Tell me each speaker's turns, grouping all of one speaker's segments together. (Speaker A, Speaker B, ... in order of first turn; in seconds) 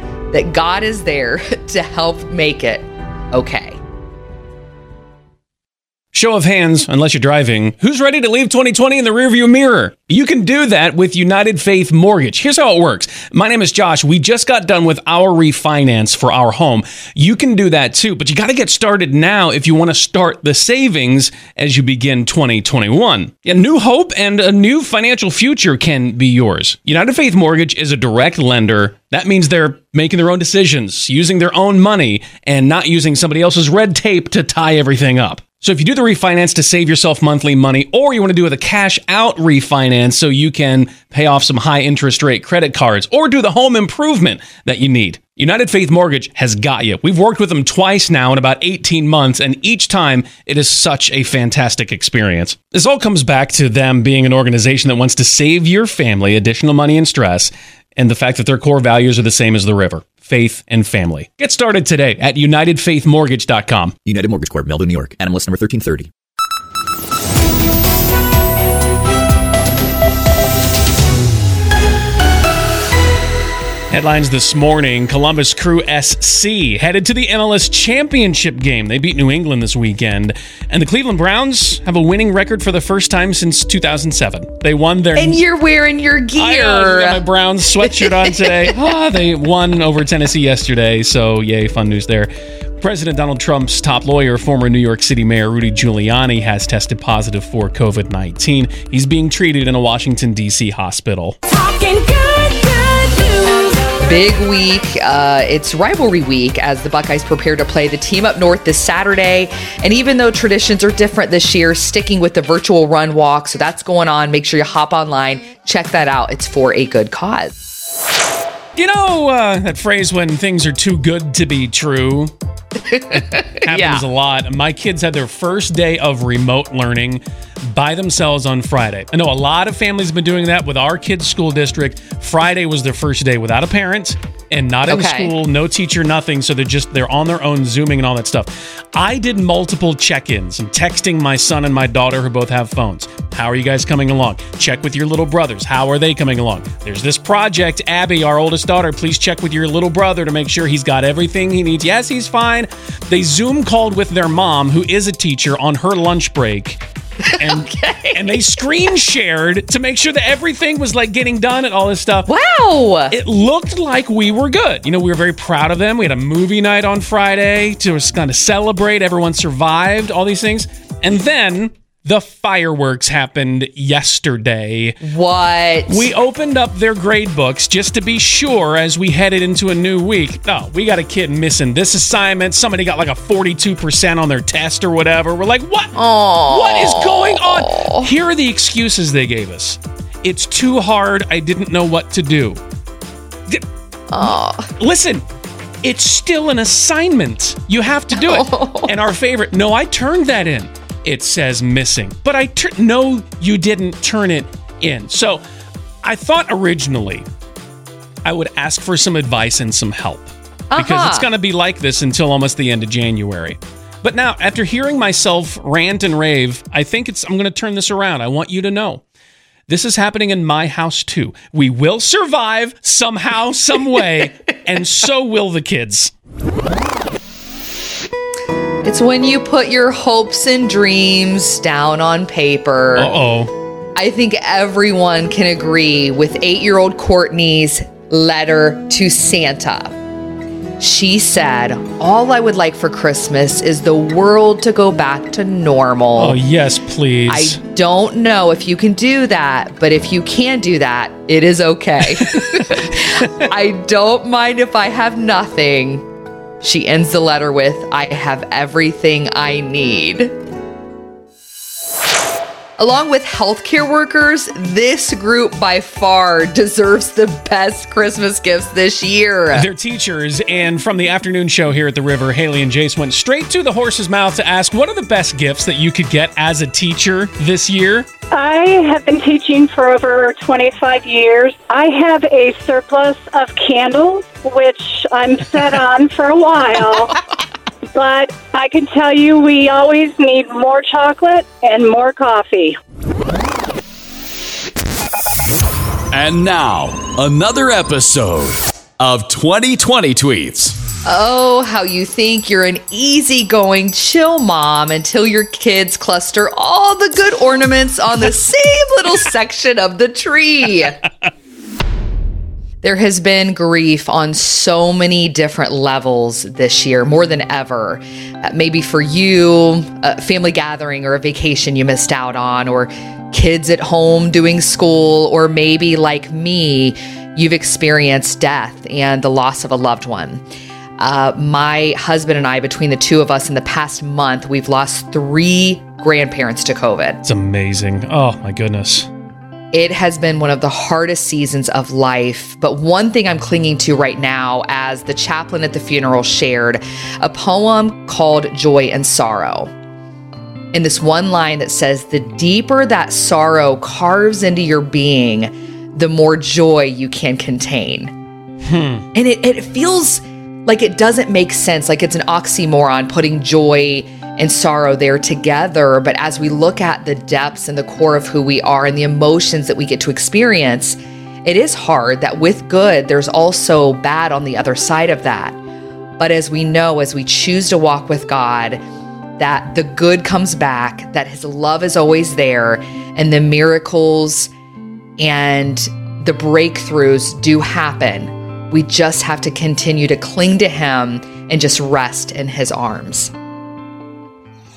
Speaker A: 0.3-3.8, 85.1-87.2, 87.8-88.7, 104.0-117.5, 122.8-124.0, 134.9-135.3, 157.3-158.4, 162.3-163.2, 175.0-176.1, 185.9-188.1, 194.1-194.7, 198.2-198.9, 210.7-211.3, 228.8-233.1, 233.9-239.9, 240.8-246.4, 247.3-256.0, 256.6-260.3, 262.8-269.7, 301.0-311.0, 312.8-330.4, 331.0-337.2, 339.7-349.7, 350.7-358.1, 359.1-375.6, 376.2-378.8, 379.4-384.5, 385.2-393.3
Speaker B: 6.1-64.0, 73.9-85.4, 86.4-101.4, 118.8-122.3, 123.1-156.8, 157.3-162.3, 163.1-175.0, 175.9-192.6, 194.2-195.2, 195.8-205.4, 206.0-207.2, 208.2-219.0, 219.7-226.1, 232.9-233.5, 246.2-247.6, 269.5-278.1, 337.2-339.1, 358.6-359.1
Speaker C: 64.0-66.1
Speaker D: 101.5-103.6, 278.3-287.2, 287.9-292.8
Speaker E: 296.1-300.7